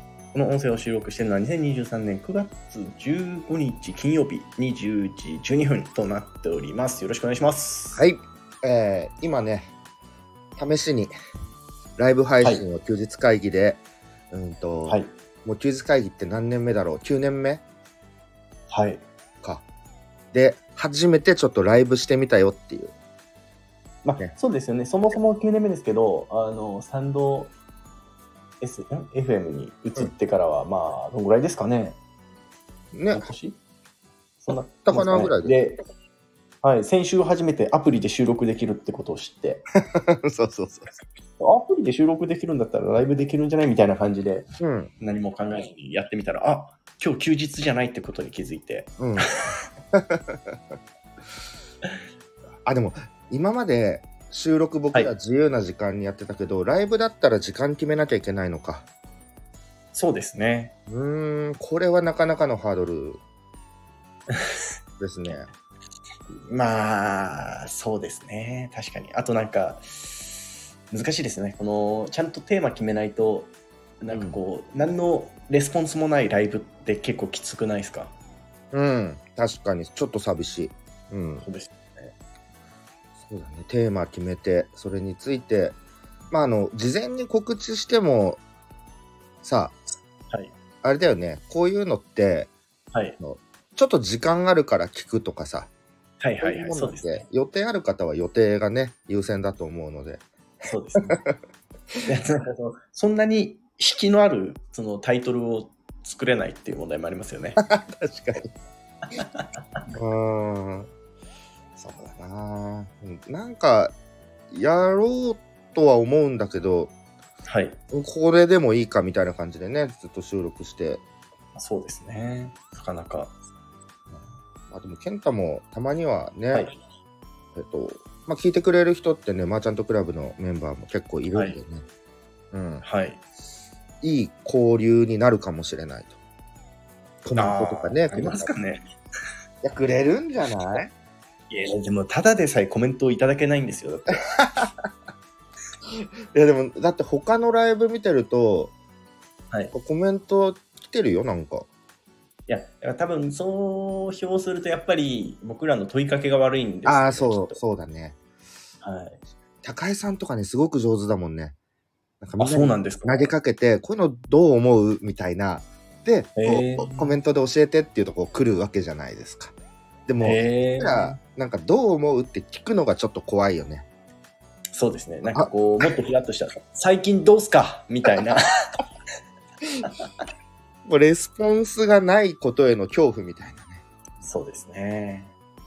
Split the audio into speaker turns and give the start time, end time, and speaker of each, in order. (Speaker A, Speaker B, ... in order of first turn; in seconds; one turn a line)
Speaker A: 0.3-8.0
Speaker B: 8.0-9.7
Speaker B: 10.6-11.1
Speaker B: 12.0-17.6
Speaker A: 18.7-19.0
Speaker B: 20.3-22.9
Speaker A: 24.0-27.5
Speaker A: 28.6-32.0
Speaker B: 32.9-33.3
Speaker A: 33.1-33.6
Speaker A: 34.4-35.8
Speaker B: 34.8-35.5
Speaker A: 36.6-39.6
Speaker B: 39.9-40.9
Speaker A: 41.4-44.5
Speaker B: 44.6-44.9
Speaker A: 45.0-49.5
Speaker B: 49.0-49.3
Speaker B: 49.9-50.5
Speaker B: 52.6-58.9
Speaker A: 59.9-60.7
Speaker B: 60.9-63.2
Speaker A: 64.3-64.6
Speaker B: 65.0-65.5
Speaker A: 66.4-78.1
Speaker B: 74.1-74.4
Speaker B: 78.7-81.5
Speaker A: 81.4-82.1
Speaker B: 83.2-85.8
Speaker B: 86.3-88.4
Speaker B: 89.4-89.8
Speaker B: 90.8-92.5
Speaker A: 92.9-93.2
Speaker B: 93.2-95.7
Speaker A: 96.2-97.2
Speaker B: 96.4-100.2
Speaker A: 100.7-101.2
Speaker A: 102.0-107.6
Speaker B: 107.6-108.5
Speaker A: 109.1-109.5
Speaker B: 109.9-110.9
Speaker B: 111.8-113.9
Speaker B: 114.5-116.9
Speaker A: 117.5-117.8
Speaker B: 117.9-121.0
Speaker A: 121.5-123.3
Speaker B: 124.1-126.7
Speaker B: 127.5-131.8
Speaker B: 132.5-132.8
Speaker A: 132.8-133.2
Speaker B: 134.0-136.2
Speaker B: 137.2-138.5
Speaker A: 137.3-138.8
Speaker B: 139.6-140.9
Speaker A: 141.5-144.2
Speaker B: 145.9-148.7
Speaker B: 149.7-151.7
Speaker A: 152.5-157.6
Speaker B: 156.8-158.2
Speaker A: 158.8-159.2
Speaker B: 159.6-161.6
Speaker B: 162.2-169.5
Speaker A: 162.4-163.3
Speaker A: 166.4-167.1
Speaker B: 170.1-173.8
Speaker A: 170.2-171.2
Speaker A: 174.7-178.4
Speaker B: 175.3-175.9
Speaker B: 180.8-183.8
Speaker A: 184.2-185.3